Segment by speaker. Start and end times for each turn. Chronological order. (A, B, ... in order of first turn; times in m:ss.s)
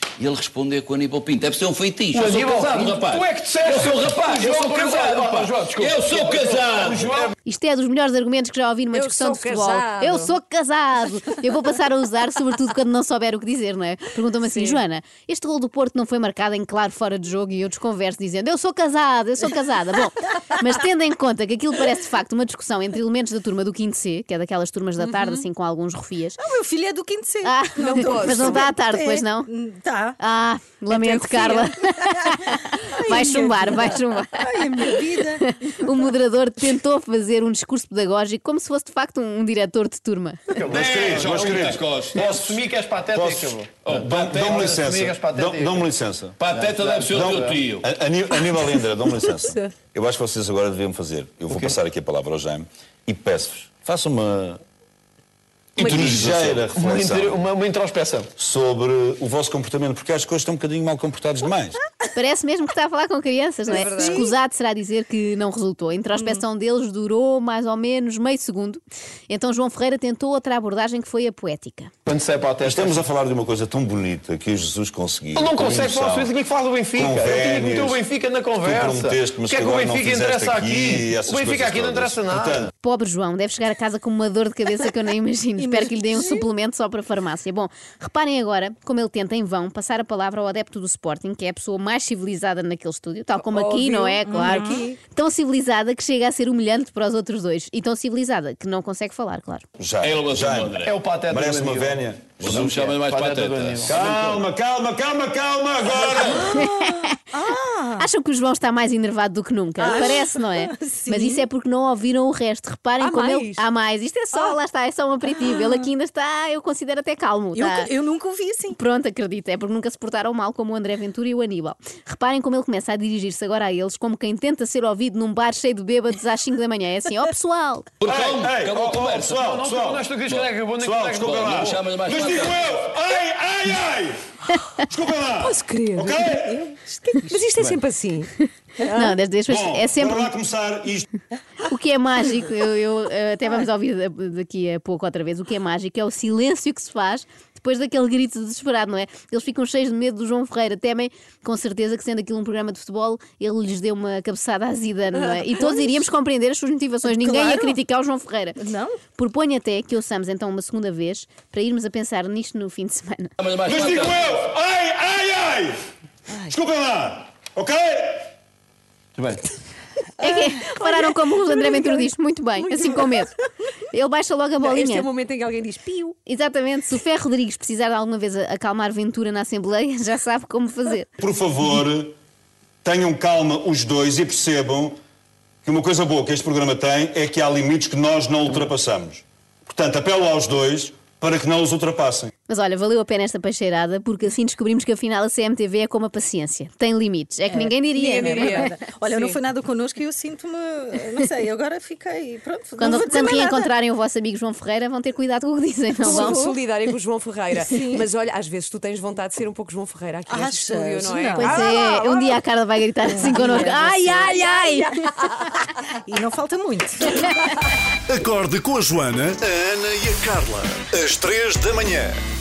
0:00.2-0:07.3 A
0:02.1-0:07.3 B
0:07.4-0:26.4 C
0:08.9-0:10.3 D
0:26.4-0:30.2 E
0:27.4-0:29.5 C
0:27.8-0:28.7 D
0:30.2-0:40.6 C
0:30.9-0:32.0 D
0:32.2-0:35.9 E
0:40.5-0:45.9 B
0:40.7-0:42.3 A
0:40.7-0:46.4 F
0:43.8-0:44.1 A
0:46.4-0:47.9 A
0:46.4-0:47.7 B
0:47.1-0:54.6 F
0:51.5-0:51.8 B
0:55.8-0:56.6 A
0:55.8-0:57.4 F
0:55.8-0:58.3 B
0:58.4-1:01.8 F
1:02.1-1:11.9 C
1:03.7-1:04.3 D
1:03.7-1:04.3 E
1:12.1-1:13.1 B
1:12.6-1:16.3 F
1:15.4-1:22.7 B
1:16.9-1:18.0 F
1:18.6-1:22.7 F
1:22.8-1:39.7 C
1:25.6-1:26.4 E
1:33.4-1:35.0 D
1:34.2-1:35.0 E
1:39.8-1:42.8 F
1:40.0-1:41.0 A
1:40.8-1:44.0 B
1:42.4-1:44.4 A
1:43.8-1:46.5 F
1:46.2-1:48.1 E
1:46.4-1:47.2 C
1:48.0-1:57.9 C
1:49.8-1:51.5 E
1:49.8-1:50.1 D
1:53.0-1:53.6 D
1:57.5-1:58.8 E
1:58.8-2:07.9 C
2:08.0-2:09.4 A
2:08.0-2:10.0 F
2:09.0-2:11.8 B
2:10.2-2:10.5 A
2:10.8-2:14.2 F
2:11.2-2:12.8 A
2:14.8-2:16.6 F
2:15.4-2:19.2 D
2:18.8-2:20.3 C
2:19.5-2:21.1 F
2:21.6-2:38.6 C
2:37.0-2:37.8 E
2:38.6-2:39.0 E
2:39.2-2:43.3 C
2:43.4-2:44.4 A
2:43.6-2:45.8 F
2:46.4-2:48.3 F
2:50.2-2:53.3 C
2:50.2-2:52.0 D
2:52.6-2:53.2 D
2:53.9-2:55.1 C
2:54.6-2:56.2 D
2:56.3-3:01.1 C
3:01.2-3:02.2 F
3:02.8-3:05.0 F
3:05.6-3:12.3 F
3:12.5-3:18.8 C
3:17.5-3:23.7 E
3:18.1-3:19.4 D
3:22.8-3:26.4 C
3:26.0-3:26.6 E
3:26.1-3:32.4 D
3:27.5-3:28.1 E
3:30.3-3:31.8 E
3:31.4-3:35.4 C
3:33.1-3:34.3 E
3:33.6-3:35.5 D
3:36.0-3:37.4 E
3:38.1-3:42.2 G